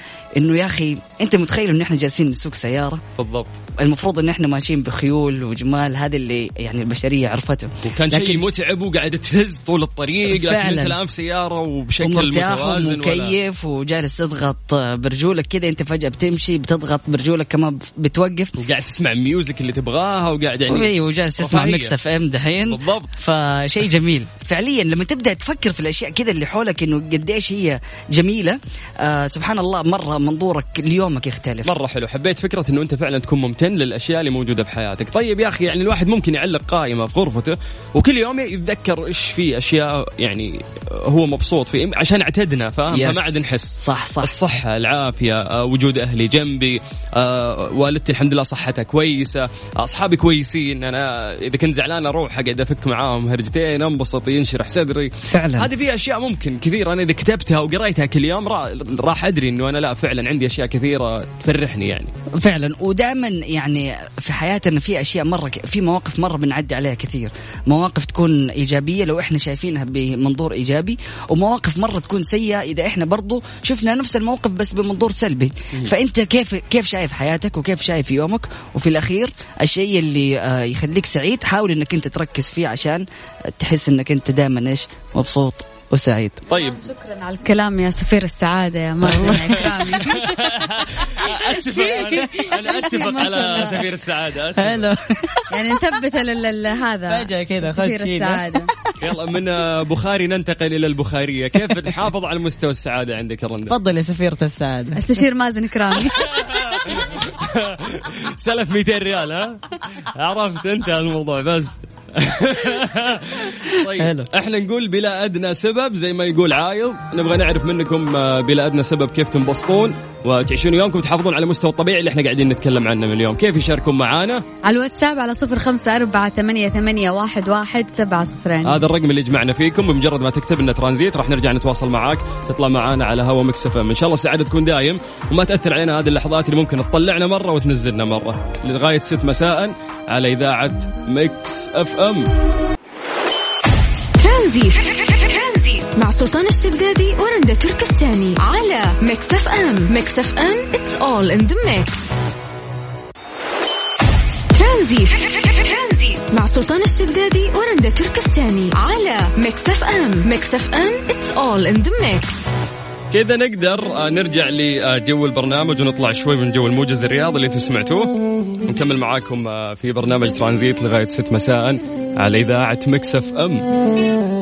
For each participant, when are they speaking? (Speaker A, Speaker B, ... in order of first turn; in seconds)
Speaker A: 0.4-3.0, 3.8-8.4, 10.3-11.0, 12.0-18.5, 20.7-31.8, 42.9-44.4, 55.3-55.7, 62.4-83.0, 83.5-86.4
Speaker B: 3.2-3.6, 7.8-13.4, 18.6-21.9, 22.7-23.1, 31.6-62.1, 86.5-86.8, 89.0-94.9, 99.0-103.8, 106.1-124.4, 128.7-142.3, 163.1-173.7
Speaker C: 86.5-90.3, 91.1-93.8, 95.5-98.7, 105.0-106.4, 124.7-128.8
Speaker D: 89.1-90.2, 92.2-92.4, 94.6-95.4, 97.1-98.6, 103.7-105.0
Speaker E: 144.2-152.2, 154.5-162.5